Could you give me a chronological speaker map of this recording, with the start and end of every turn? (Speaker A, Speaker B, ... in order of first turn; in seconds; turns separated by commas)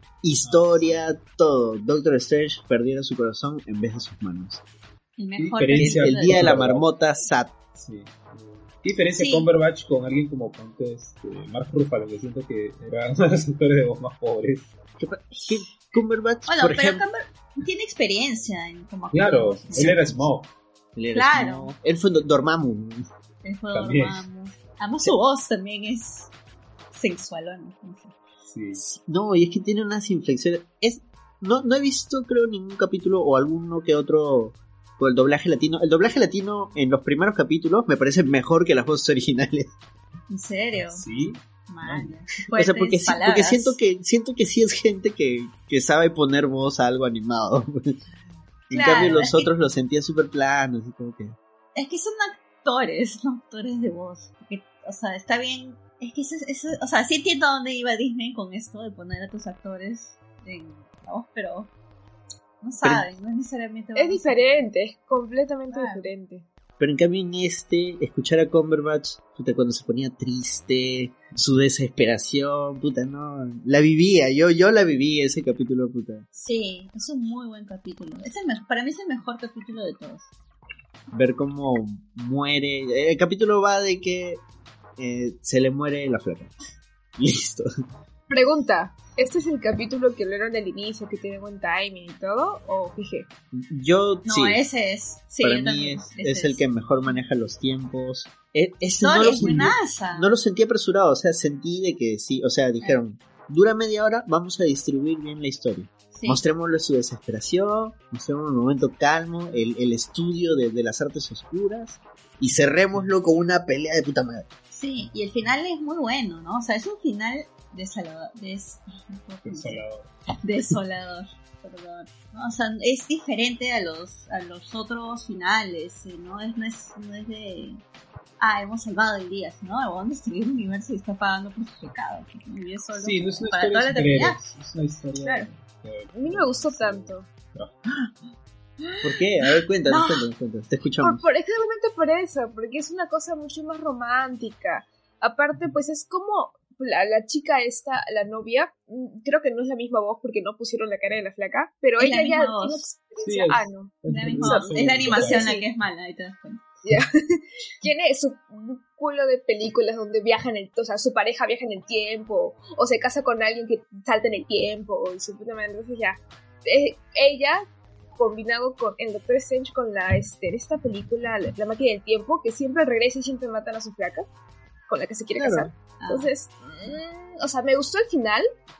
Speaker A: 0.2-4.6, Speaker B: 0.4-1.0, Speaker C: 5.2-6.6, Speaker B: 5.4-6.9, Speaker A: 5.8-7.5, Speaker B: 7.8-14.7, Speaker C: 9.2-9.5, Speaker A: 15.0-17.0, Speaker C: 16.5-19.9, Speaker B: 19.1-20.5, Speaker A: 19.7-20.3, Speaker A: 20.9-23.1, Speaker C: 21.1-21.7, Speaker C: 23.4-26.3, Speaker B: 23.7-24.3, Speaker C: 26.9-28.1, Speaker B: 28.5-28.8, Speaker A: 28.7-39.8, Speaker C: 40.3-41.0, Speaker B: 40.8-42.2, Speaker C: 41.7-43.8, Speaker A: 42.5-48.0, Speaker A: 48.7-51.4, Speaker C: 48.7-49.5, Speaker C: 51.8-61.7, Speaker C: 62.6-64.7, Speaker D: 64.0-66.5, Speaker C: 65.7-66.1, Speaker A: 66.8-76.3, Speaker C: 76.3-80.3, Speaker A: 81.1-84.4, Speaker A: 85.0-86.5, Speaker A: 87.2-87.7, Speaker D: 88.3-93.3, Speaker A: 93.5-94.6, Speaker C: 94.2-96.6, Speaker A: 95.4-114.5, Speaker C: 99.0-100.3, Speaker C: 106.1-106.4, Speaker C: 114.7-119.8, Speaker B: 119.5-120.1, Speaker C: 120.4-127.8, Speaker C: 128.4-134.4, Speaker B: 133.0-137.8, Speaker C: 135.2-135.5, Speaker D: 136.1-137.3, Speaker A: 139.0-141.2, Speaker C: 139.9-140.2, Speaker D: 141.0-155.7, Speaker C: 152.0-152.9, Speaker B: 153.2-155.5, Speaker C: 154.1-156.6, Speaker D: 156.8-167.6, Speaker D: 168.2-174.3, Speaker D: 174.9-178.5, Speaker A: 175.3-175.7, Speaker C: 176.0-176.3